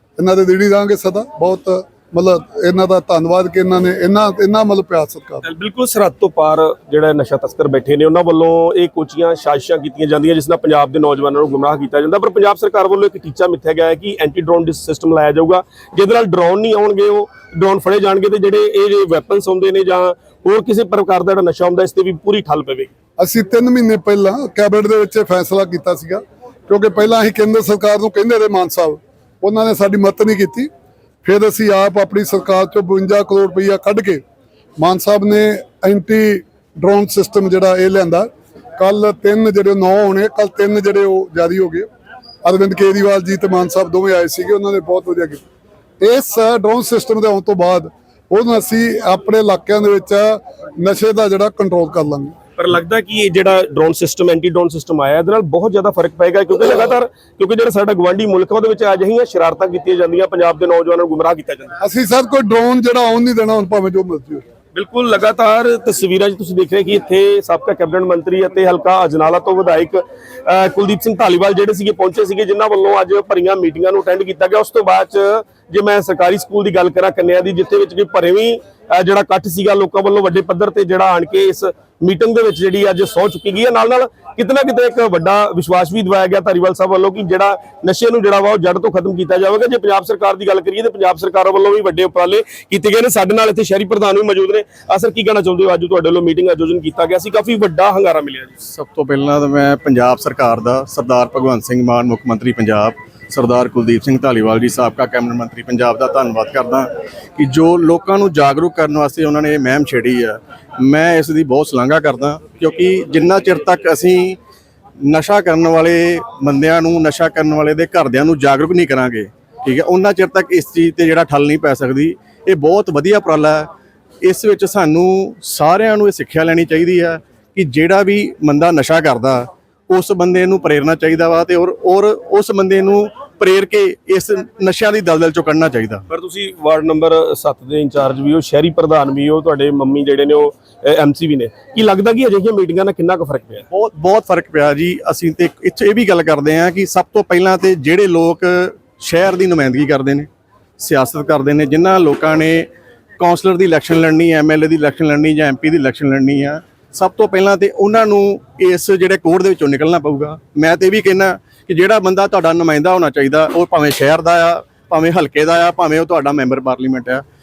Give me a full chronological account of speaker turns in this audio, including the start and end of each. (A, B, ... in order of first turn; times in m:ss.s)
0:00.2-0:05.4 A
0:05.4-0:22.9 B
0:23.2-0:30.7 A
0:31.2-0:34.2 A
0:34.8-0:41.9 A
0:42.4-0:45.4 A
0:46.0-0:52.4 A
0:52.6-1:01.8 B
1:01.8-1:04.4 A
1:04.8-1:38.6 B
1:38.7-1:54.4 C
1:55.0-2:03.7 C
2:04.2-2:16.0 C
2:16.1-2:23.7 B
2:23.7-2:30.3 C
2:30.8-2:47.2 C